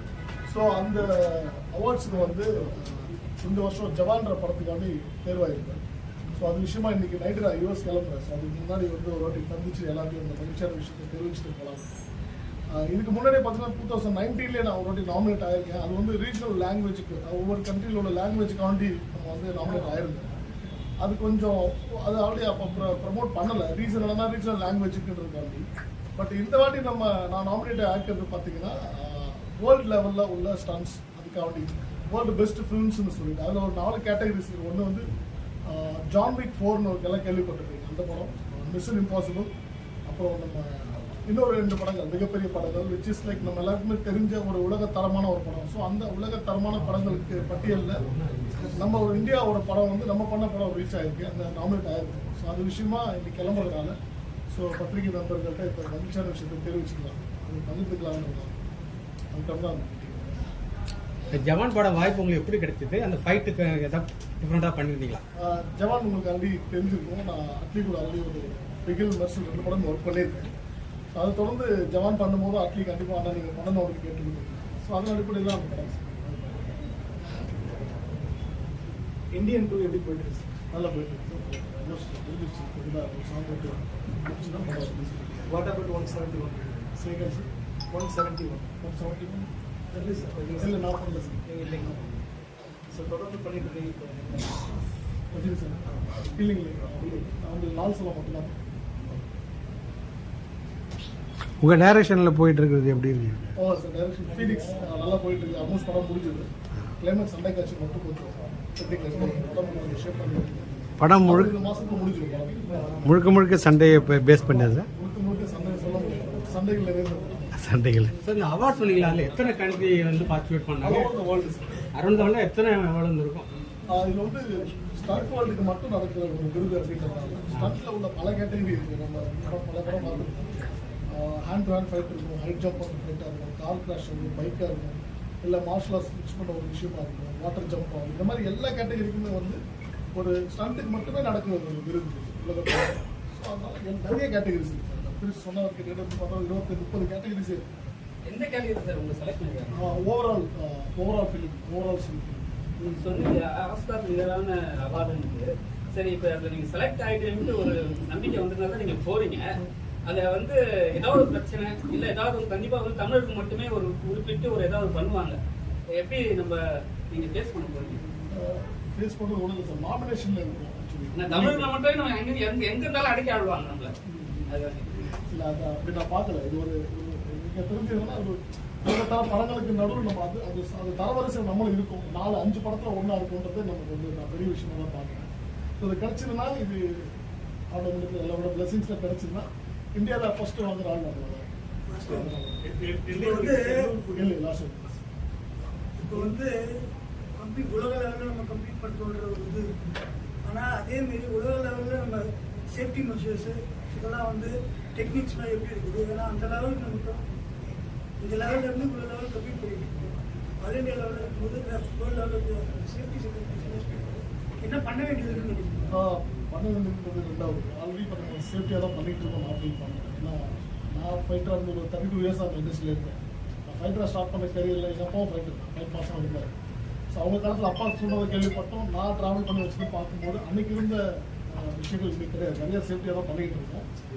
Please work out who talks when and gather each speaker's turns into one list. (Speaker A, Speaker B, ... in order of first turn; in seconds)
Speaker A: 0.5-5.8, 6.4-11.9, 12.7-20.3, 21.0-25.6, 26.1-35.0, 35.7-39.5, 40.1-53.9, 54.5-58.6, 59.3-60.4, 65.4-70.5, 71.2-76.9, 80.7-85.5, 87.0-87.5, 88.8-89.5, 90.6-92.0, 95.3-98.7, 103.6-113.0, 114.5-117.5, 120.8-121.9, 123.9-139.6, 140.1-147.9, 149.8-152.5, 168.3-171.7, 174.1-174.5, 175.2-187.1, 187.7-191.5, 192.0-194.9, 215.9-226.5, 227.1-233.8
Speaker B: 61.3-65.2, 118.2-121.1, 121.9-123.5
Speaker C: 79.3-80.5, 85.5-86.9, 87.9-88.7, 89.9-90.8, 91.4-92.0, 92.9-94.6, 152.8-153.0
Speaker D: 101.6-103.5, 111.0-111.5, 113.0-114.9, 117.5-118.1
Speaker E: 148.2-149.8, 153.0-165.4, 166.0-166.6, 167.1-168.0, 171.1-173.9, 174.5-175.0
Speaker F: 191.9-192.3, 193.1-193.9, 196.0-196.6, 197.4-199.7, 200.4-207.2, 208.2-215.9